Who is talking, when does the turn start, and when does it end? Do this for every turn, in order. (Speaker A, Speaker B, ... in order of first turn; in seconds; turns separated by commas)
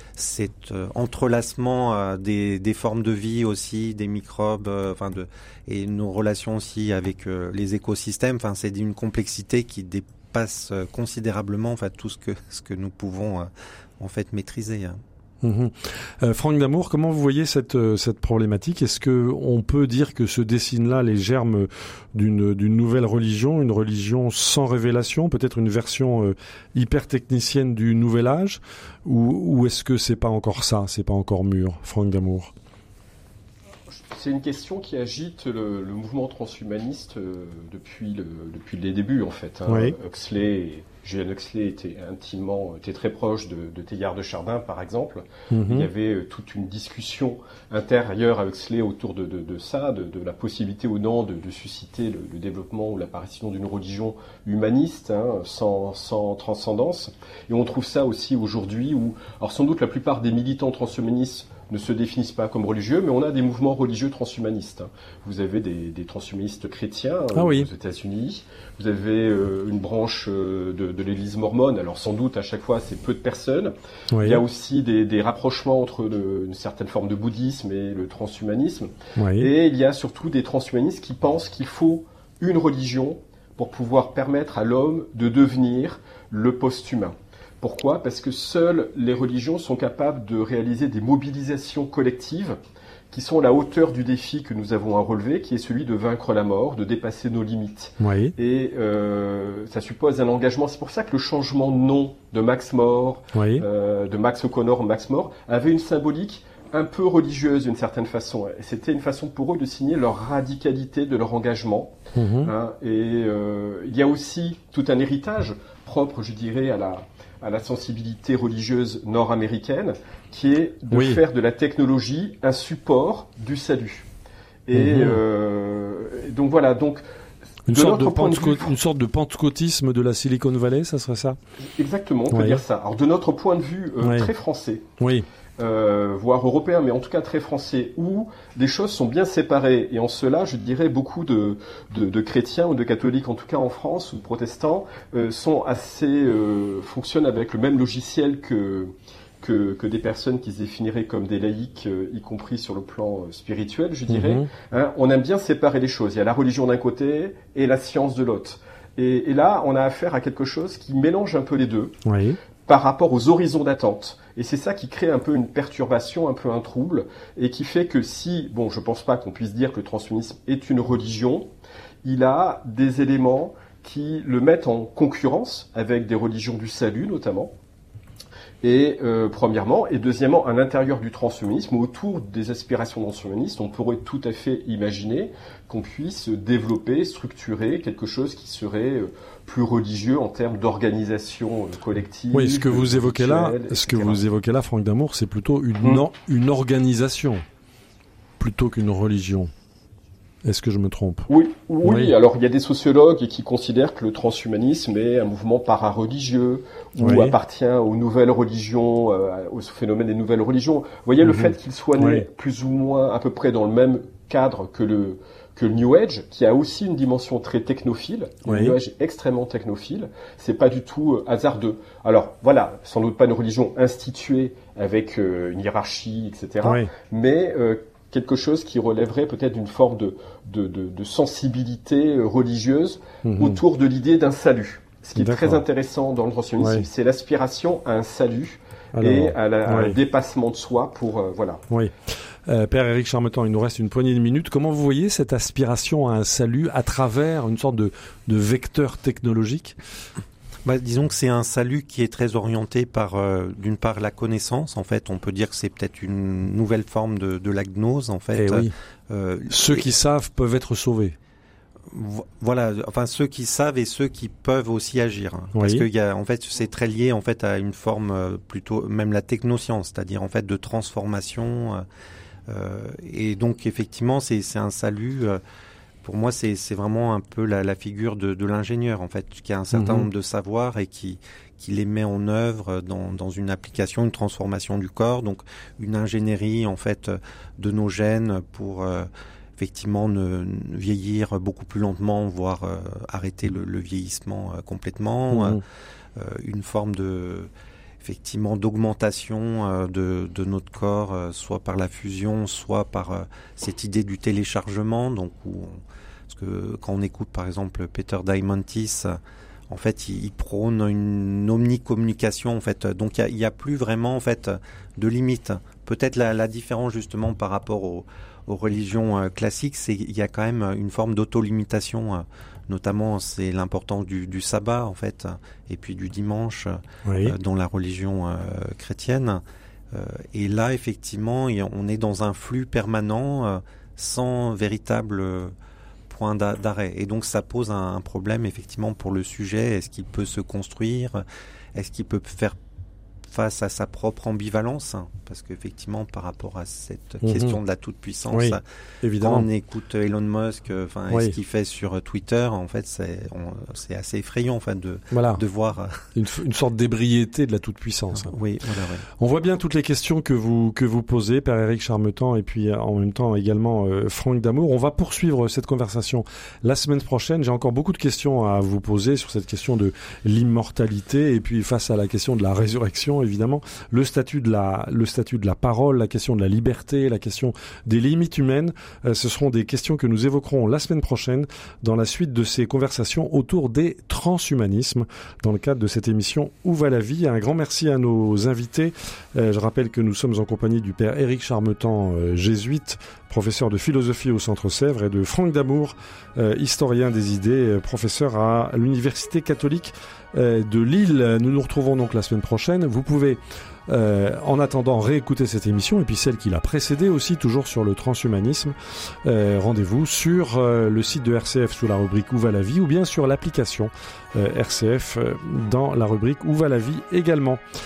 Speaker A: 0.1-15.0, Speaker B: 15.4-32.5, Speaker C: 33.9-92.6, Speaker B: 39.7-40.0, Speaker B: 45.5-45.9, Speaker B: 67.3-67.7, Speaker B: 74.1-74.4, Speaker B: 79.2-79.5, Speaker C: 93.1-124.1, Speaker B: 98.0-98.3, Speaker B: 103.3-103.6, Speaker B: 112.1-112.5, Speaker B: 120.9-121.2, Speaker C: 124.7-127.0, Speaker B: 124.7-125.2, Speaker B: 127.7-131.4, Speaker C: 127.7-128.7, Speaker C: 131.7-134.9, Speaker B: 132.3-132.6, Speaker B: 134.0-134.3, Speaker B: 135.0-135.2, Speaker C: 135.6-162.0, Speaker B: 154.1-154.5, Speaker B: 162.0-162.4, Speaker C: 162.6-171.5, Speaker C: 172.0-177.5, Speaker C: 178.6-194.2, Speaker B: 192.3-197.4, Speaker B: 198.4-199.5, Speaker B: 200.4-201.3, Speaker C: 201.3-241.6, Speaker B: 201.8-202.1, Speaker B: 207.0-207.3, Speaker B: 211.2-212.2, Speaker B: 218.4-218.8, Speaker B: 226.6-226.9, Speaker B: 233.2-233.6, Speaker B: 235.2-235.6, Speaker B: 236.6-236.8, Speaker B: 238.9-240.0, Speaker B: 242.4-249.8, Speaker A: 250.6-259.9, Speaker B: 258.4-258.7, Speaker B: 259.5-261.1, Speaker A: 261.9-271.8, Speaker B: 265.5-265.9, Speaker A: 272.5-275.4, Speaker A: 276.0-295.6, Speaker B: 279.7-280.1, Speaker B: 295.3-295.6, Speaker A: 296.1-297.5, Speaker A: 298.0-309.2, Speaker A: 309.7-335.5, Speaker B: 327.1-327.3, Speaker A: 336.1-341.2, Speaker A: 341.7-342.6, Speaker A: 343.3-348.6, Speaker B: 347.2-347.6, Speaker B: 348.3-349.5, Speaker A: 349.2-356.1, Speaker B: 351.1-351.4, Speaker B: 355.1-355.4, Speaker B: 356.1-358.3, Speaker A: 358.3-359.1, Speaker B: 359.2-417.6